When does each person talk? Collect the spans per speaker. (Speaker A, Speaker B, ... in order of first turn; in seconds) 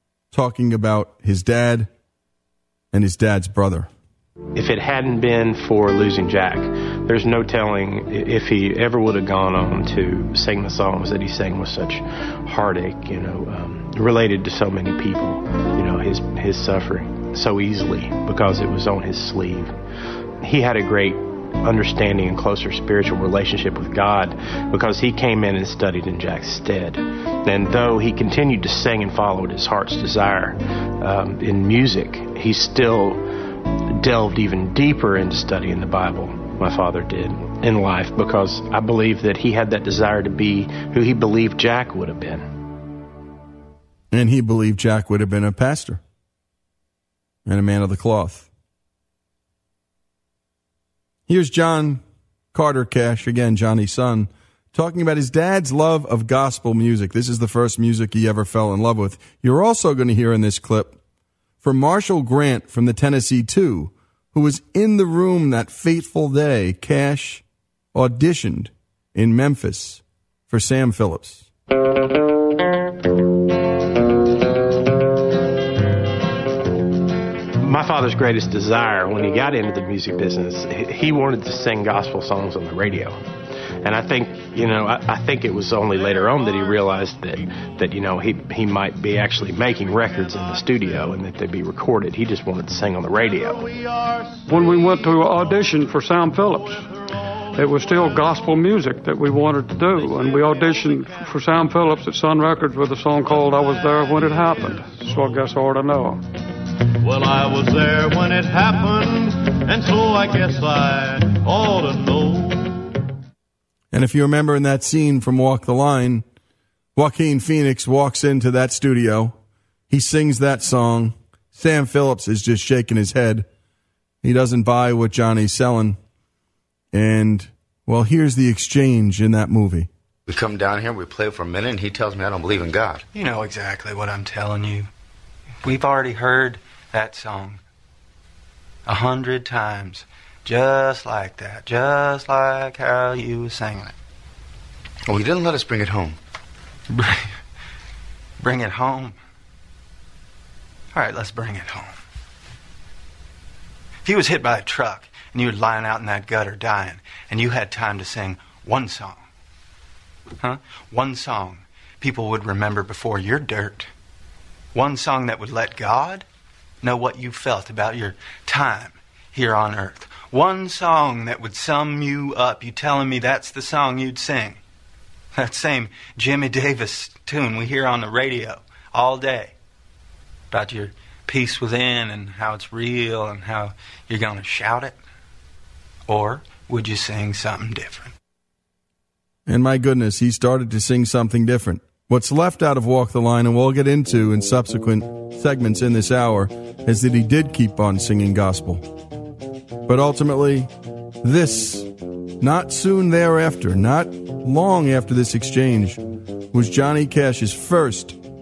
Speaker A: 0.3-1.9, 2.9-3.9, 44.1-46.0, 47.5-48.5, 51.3-52.0, 52.5-61.0, 61.6-67.4, 67.9-71.5, 113.9-116.2, 117.0-119.4, 119.9-123.5, 124.2-126.0, 126.9-129.9, 189.5-198.9, 199.9-200.7, 201.2-201.9, 202.4-206.0, 206.5-208.2
Speaker B: 4.6-19.7, 20.4-33.2, 34.0-42.5, 77.6-83.2, 83.8-93.6
Speaker C: 93.5-95.1, 100.2-100.9, 103.7-105.3, 107.0-112.8
Speaker D: 94.5-96.8, 97.6-106.2
Speaker E: 130.3-133.0, 145.1-146.2
Speaker F: 133.1-134.9, 135.6-137.6, 138.9-143.9, 146.9-147.3, 148.4-149.2, 150.9-152.0, 154.1-159.2, 160.4-163.9, 164.7-166.2, 166.8-174.6, 175.3-179.5, 180.5-185.0, 186.1-188.1